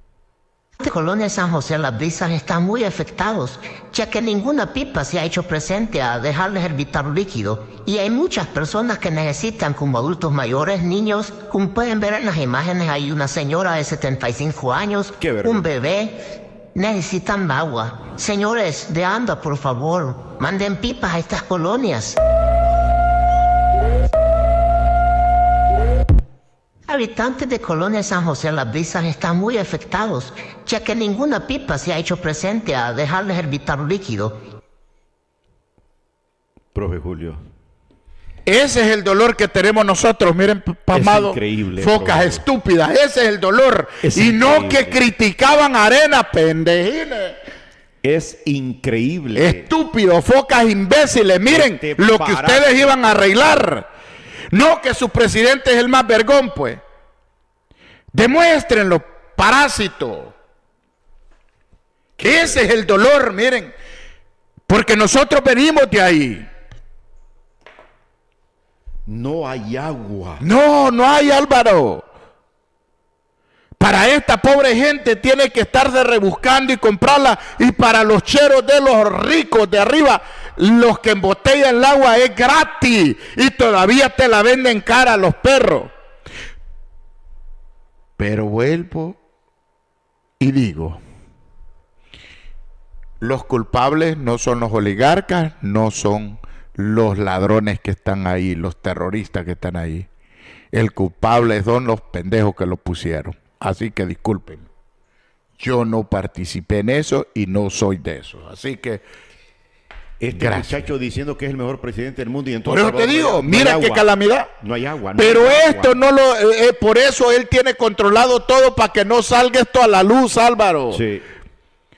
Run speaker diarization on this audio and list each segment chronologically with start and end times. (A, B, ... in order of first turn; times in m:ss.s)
0:00.8-0:16.2 A
0:15.2-0:15.6 B
0:16.7-0:22.2 A
0:26.9-0:34.4 A
0:36.7-0:37.4 B
0:38.4-0:47.4 C
0:40.9-0:42.4 B
0:44.0-0:45.0 B
0:48.0-0:49.7 B
0:49.3-0:53.9 C
0:51.5-0:53.4 B
0:54.5-0:56.8 C
0:58.1-1:00.3 C
1:02.2-1:03.7 C
1:02.2-1:02.6 B
1:04.7-1:06.5 C
1:09.0-1:10.4 B
1:10.4-1:12.0 C
1:13.8-1:25.9 C
1:28.2-1:29.2 C
1:30.4-1:31.0 C
1:33.2-1:40.1 C
1:40.7-1:44.6 C
1:45.6-1:49.0 C
1:50.2-1:56.0 B
1:50.4-1:50.7 C
1:52.6-1:54.5 C
1:55.2-2:01.0 C
2:00.9-2:01.2 B